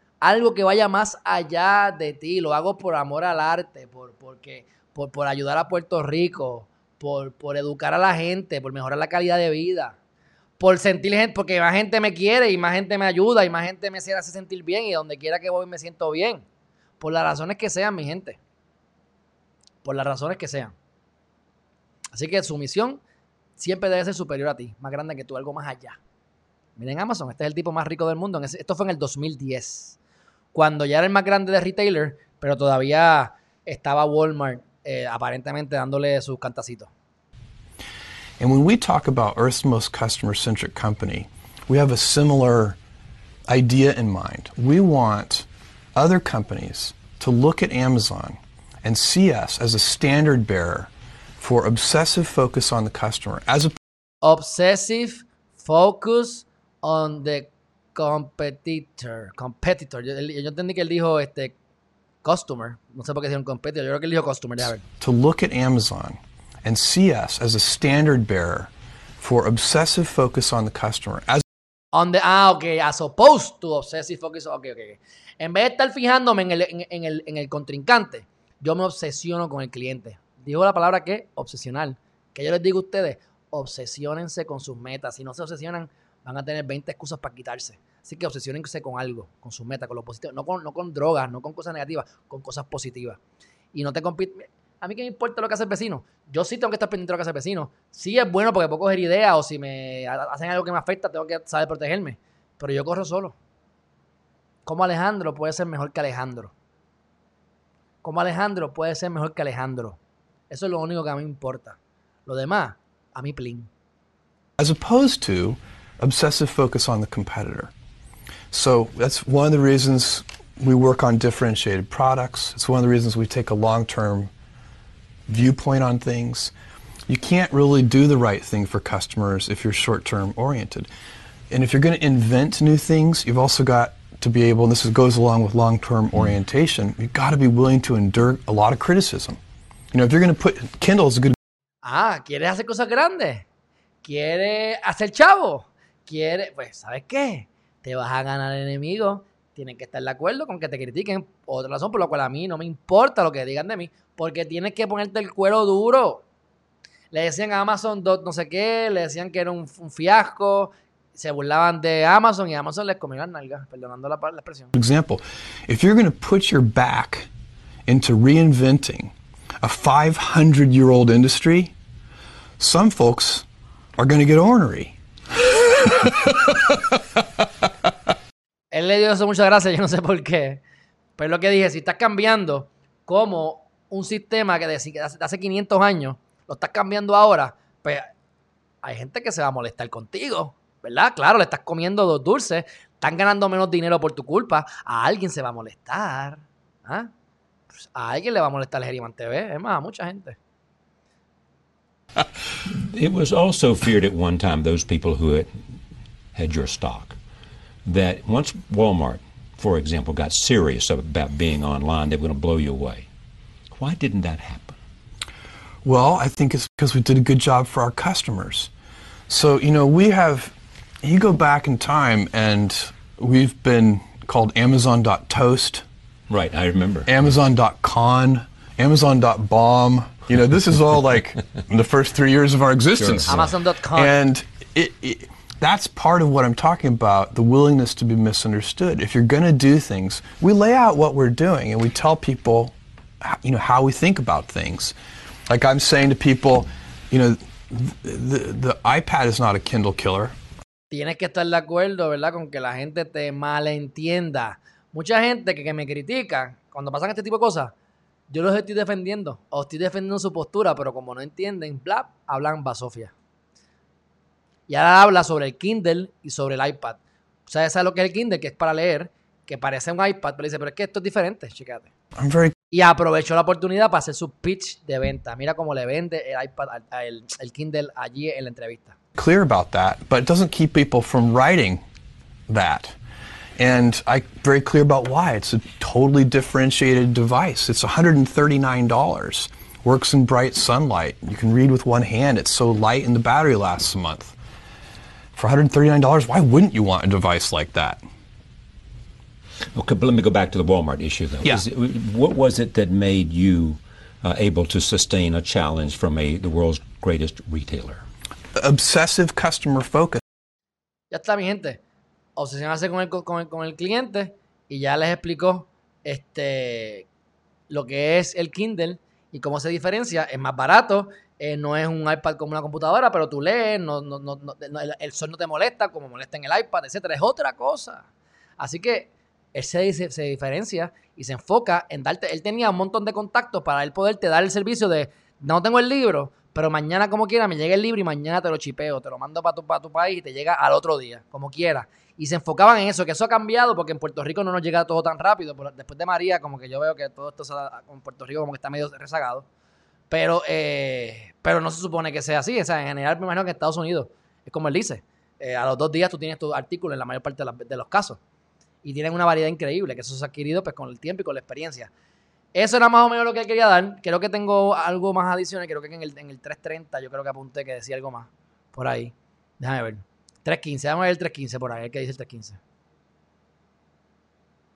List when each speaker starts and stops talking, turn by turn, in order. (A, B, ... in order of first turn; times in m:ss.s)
0:00.2-0:10.0 A
0:10.6-0:16.4 A
0:17.0-0:18.4 A
0:19.8-0:20.8 A
0:22.1-0:23.0 A
0:23.6-0:26.0 A
0:26.8-0:30.0 A
0:30.5-0:36.9 A
0:38.4-0:42.8 B
0:43.5-0:53.8 B
0:54.2-1:01.6 A
1:02.2-1:04.8 A
1:05.0-1:11.4 B
1:11.9-1:33.2 A
1:33.7-1:43.4 A
1:44.7-1:46.5 A
1:48.0-1:50.0 A
1:50.5-1:53.7 A
1:54.6-1:57.7 B
1:58.5-2:04.3 B
2:05.3-2:06.5 B
2:07.1-2:10.9 B
2:11.5-2:19.4 B
2:19.9-2:21.4 B
2:21.8-2:23.5 A
2:24.0-2:36.2 A
2:37.1-2:44.7 A
2:44.8-2:47.3 B
2:47.9-2:51.7 B
2:52.6-2:53.5 B
2:54.0-2:56.8 B
2:58.7-3:00.6 A
3:01.2-3:08.1 A
3:08.8-3:17.1 A
3:17.8-3:20.4 A
3:22.6-3:25.5 C
3:26.3-3:27.2 C
3:27.9-3:33.1 C
3:33.7-3:34.8 C
3:35.8-3:38.7 B
3:39.3-3:45.8 B
3:46.3-3:47.1 C
3:47.1-4:05.0 B
3:53.0-3:53.5 C
3:53.3-3:54.1 A
4:05.5-4:10.4 B
4:10.9-4:17.7 A
4:18.3-4:23.1 A
4:24.7-4:31.9 A
4:32.2-4:32.6 B
4:32.7-4:39.0 A
4:39.2-4:41.8 B
4:42.5-4:43.0 B
4:43.6-4:54.4 B
4:55.4-4:58.0 B
4:59.7-5:08.1 C
5:08.6-5:10.2 B
5:11.1-5:11.8 A
5:12.4-5:17.1 A
5:17.7-5:28.1 A
5:28.6-5:49.5 A
5:50.1-5:58.2 A
5:58.8-6:01.9 A
6:02.6-6:12.6 A